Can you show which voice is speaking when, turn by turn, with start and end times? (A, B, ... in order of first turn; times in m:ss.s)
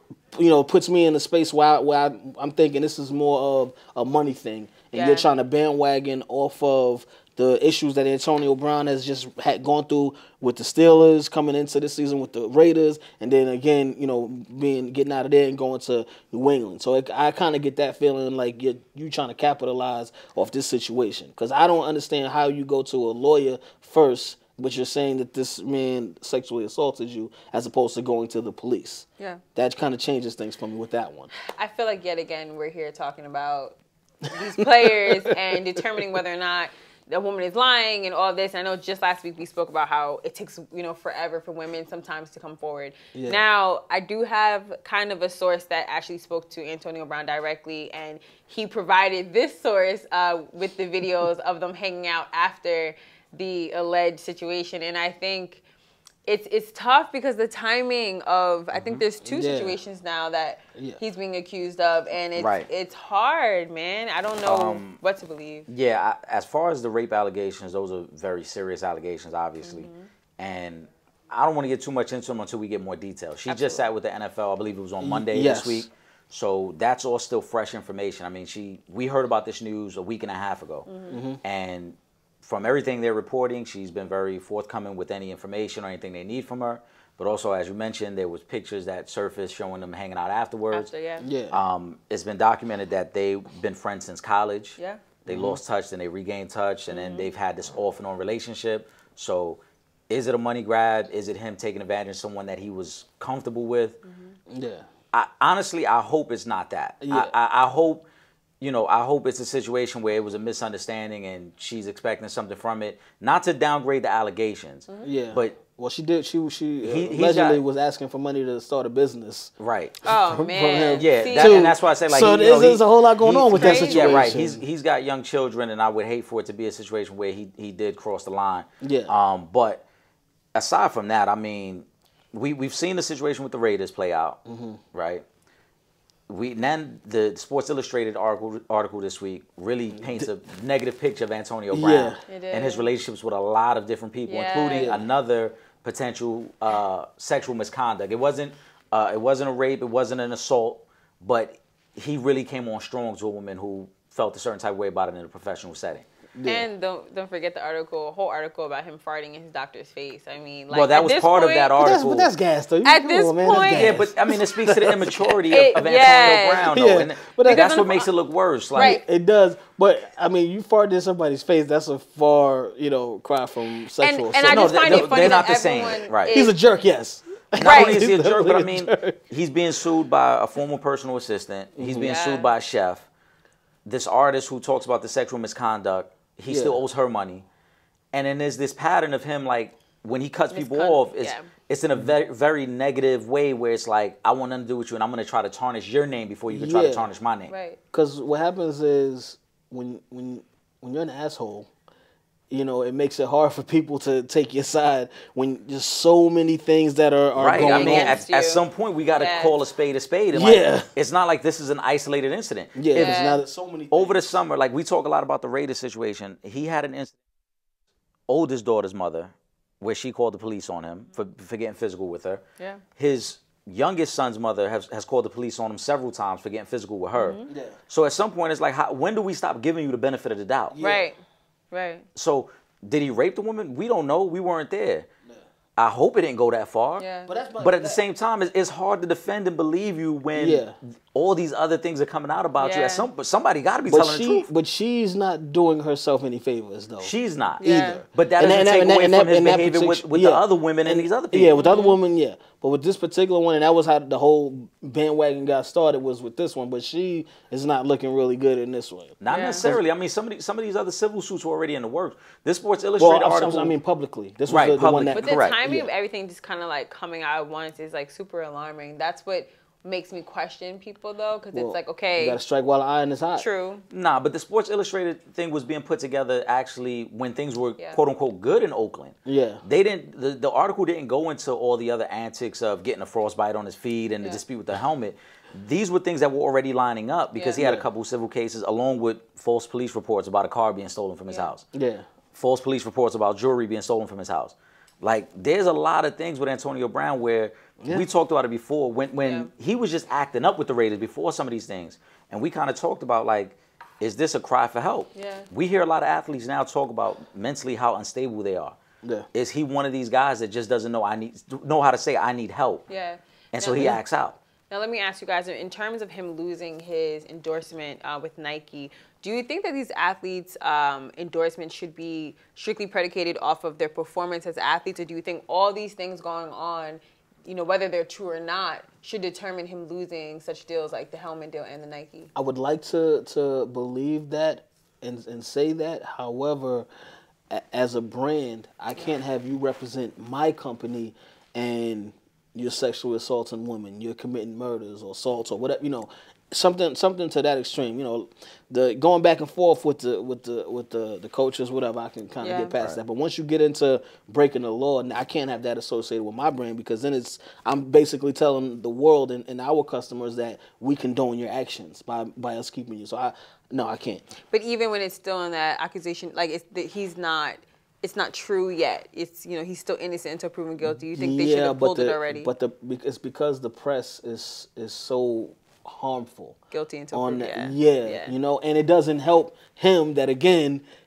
0:00.3-0:31.3 A
0:04.9-0:05.3 B
0:31.5-0:33.8 B
0:34.3-0:55.6 B
0:35.8-0:36.1 A
0:43.1-0:43.4 A
0:56.2-1:05.7 B
0:58.7-0:59.0 C
0:59.2-0:59.8 A
1:00.7-1:01.0 A
1:02.4-1:02.7 C
1:04.4-1:05.0 C
1:05.7-1:20.9 C
1:09.6-1:10.1 B
1:13.5-1:13.9 B
1:15.0-1:15.9 A
1:20.9-1:21.2 B
1:21.1-1:21.4 A
1:21.4-1:30.9 C
1:30.7-1:31.2 B
1:31.2-1:31.6 A
1:31.5-1:44.0 C
1:35.3-1:35.6 A
1:36.9-1:37.3 B
1:44.0-1:44.3 B
1:44.5-1:44.8 A
1:45.1-1:48.0 C
1:47.0-1:47.3 A
1:48.6-1:55.6 C
1:55.0-1:59.5 A
1:56.8-1:57.6 C
1:59.6-2:00.0 C
2:00.0-2:01.6 B
2:00.0-2:04.6 A
2:01.0-2:09.8 C
2:03.6-2:04.2 B
2:08.8-2:09.1 A
2:10.5-2:14.4 C
2:14.4-2:14.8 A
2:14.9-2:15.2 C
2:16.3-2:36.0 C
2:19.9-2:20.3 A
2:21.7-2:22.2 A
2:22.3-2:22.9 B
2:24.2-2:24.9 B
2:24.8-2:25.0 A
2:36.3-2:36.7 A
2:36.4-2:41.8 B
2:40.7-2:42.3 C
2:41.8-2:45.2 A
2:42.8-2:44.0 B
2:43.4-2:49.0 C
2:45.5-2:46.8 B
2:46.6-2:48.0 A
2:47.5-2:48.0 B
2:48.7-2:55.5 A
2:48.8-2:49.0 B
2:54.0-2:56.5 B
2:54.4-2:56.4 C
2:56.3-2:59.2 A
2:57.6-3:03.1 C
2:57.6-2:58.0 B
3:01.8-3:02.1 A
3:02.0-3:02.5 B
3:03.8-3:07.4 C
3:06.5-3:06.8 A
3:08.1-3:17.5 C
3:10.5-3:11.5 B
3:16.5-3:17.1 A
3:17.5-3:17.8 B
3:17.9-3:21.7 A
3:22.5-3:28.2 A
3:27.4-3:33.2 C
3:27.6-3:29.6 B
3:30.3-3:30.9 A
3:32.7-3:34.4 A
3:33.0-3:33.4 B
3:33.9-3:37.1 C
3:38.3-3:42.4 C
3:43.0-3:50.8 C
3:47.2-3:47.5 B
3:47.5-3:47.8 A
3:50.7-3:51.1 A
3:50.8-3:51.2 B
3:51.7-3:52.0 B
3:52.1-3:55.1 C
3:55.8-3:57.0 C
3:57.0-3:57.3 B
3:57.3-3:58.0 A
3:57.6-4:04.5 C
4:00.3-4:00.7 A
4:02.6-4:03.1 B
4:03.9-4:19.8 A
4:07.0-4:11.6 C
4:07.6-4:08.0 B
4:11.5-4:12.0 B
4:19.2-4:23.8 C
4:19.3-4:19.6 B
4:23.0-4:25.9 A
4:24.5-4:25.6 C
4:25.1-4:32.4 B
4:31.5-4:33.4 A
4:33.4-4:33.8 B
4:33.9-4:51.6 C
4:39.2-4:39.6 A
4:47.3-4:47.6 B
4:47.6-4:47.8 A
4:51.7-4:52.0 A
4:52.3-5:08.8 C
4:57.8-4:58.0 A
4:59.2-4:59.5 B
5:05.1-5:05.5 B
5:09.3-5:12.8 C
5:12.9-5:14.0 B
5:13.5-5:14.4 C
5:14.7-5:32.3 B
5:32.3-5:36.9 A
5:37.5-6:04.2 A
5:52.4-5:52.7 B
6:04.5-6:12.5 B
6:10.8-6:16.6 A
6:16.7-6:18.3 B
6:17.1-6:20.8 A